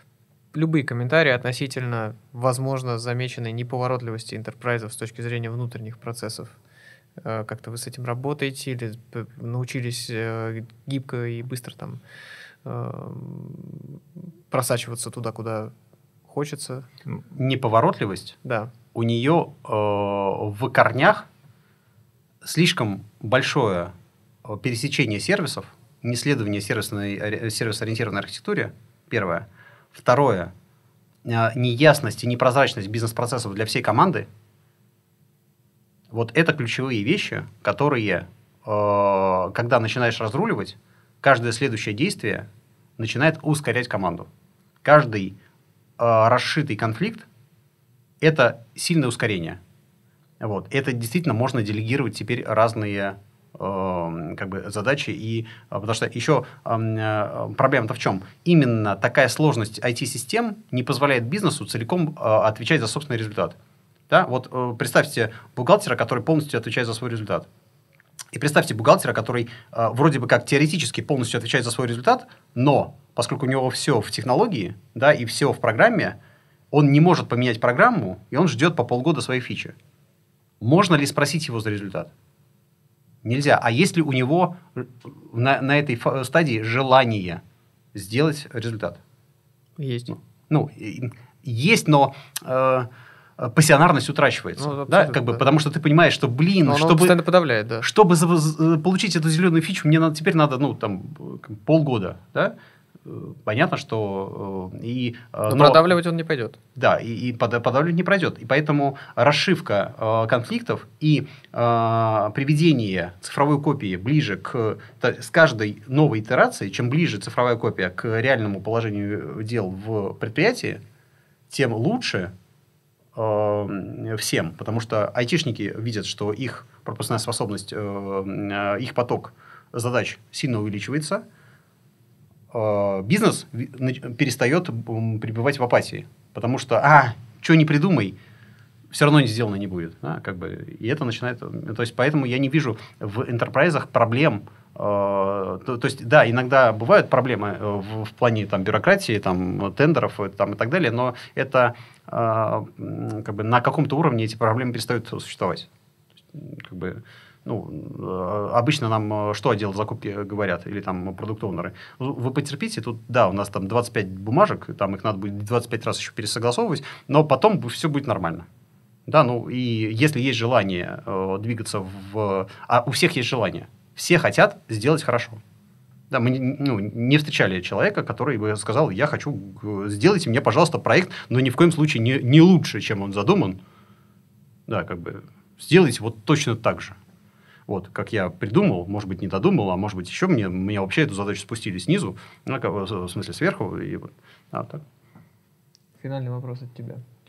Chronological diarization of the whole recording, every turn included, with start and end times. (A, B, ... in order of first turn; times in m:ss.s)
0:00.5-0:06.5 A
0:07.2-0:12.0 A
0:12.6-0:15.7 A
0:16.3-0:16.9 A
0:17.3-0:18.4 B
0:18.4-0:18.7 A
0:18.9-0:21.3 B
0:22.4-0:23.9 B
0:24.4-0:30.5 B
0:31.2-0:34.3 B
0:36.1-0:42.5 B
0:43.0-0:44.3 B
0:44.8-0:45.4 B
0:46.0-0:47.3 B
0:48.2-0:49.6 B
0:50.4-1:03.6 B
1:04.1-1:07.5 B
1:08.3-1:16.2 B
1:16.7-1:19.8 B
1:20.6-1:22.1 B
1:23.2-1:27.4 B
1:27.9-1:29.0 B
1:29.8-1:30.1 A
1:30.1-1:37.2 B
1:34.6-1:35.4 A
1:36.7-1:37.9 A
1:37.8-1:45.8 B
1:45.5-1:46.6 A
1:46.8-2:00.8 B
2:01.5-2:02.3 B
2:03.2-2:11.2 B
2:12.5-2:18.2 B
2:18.9-2:35.7 B
2:36.3-2:48.5 B
2:49.1-2:55.4 B
2:56.1-3:03.6 B
3:04.7-3:07.0 B
3:07.7-3:14.8 B
3:16.0-3:17.0 A